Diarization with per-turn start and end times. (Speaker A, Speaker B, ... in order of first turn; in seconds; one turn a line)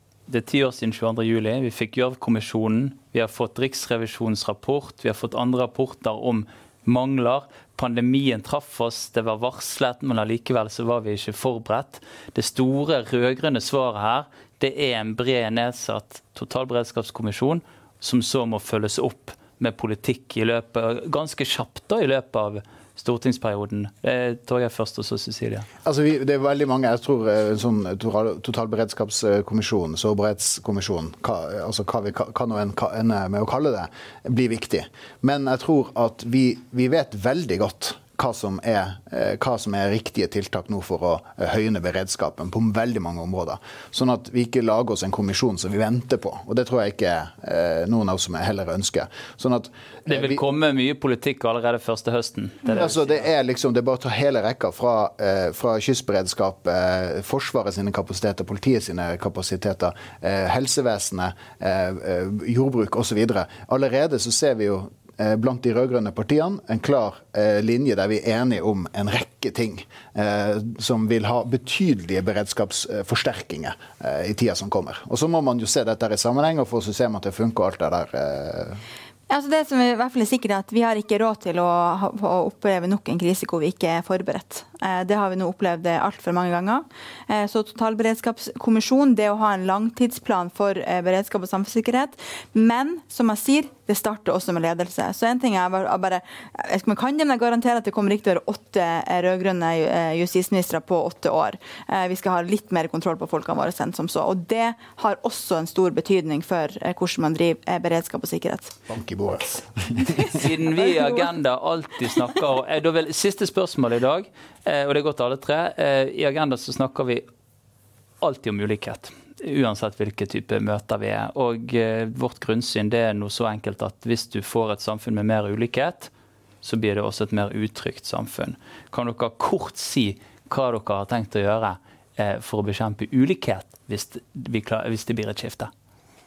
Speaker A: 0.3-25.7
Speaker B: 25.9-50.4
Speaker A: 50.1-53.2
Speaker B: 52.7-78.8
Speaker C: 79.3-108.7
Speaker B: 108.9-110.0
Speaker A: 110.3-117.2
Speaker A: 118.2-126.1
Speaker A: 126.6-135.7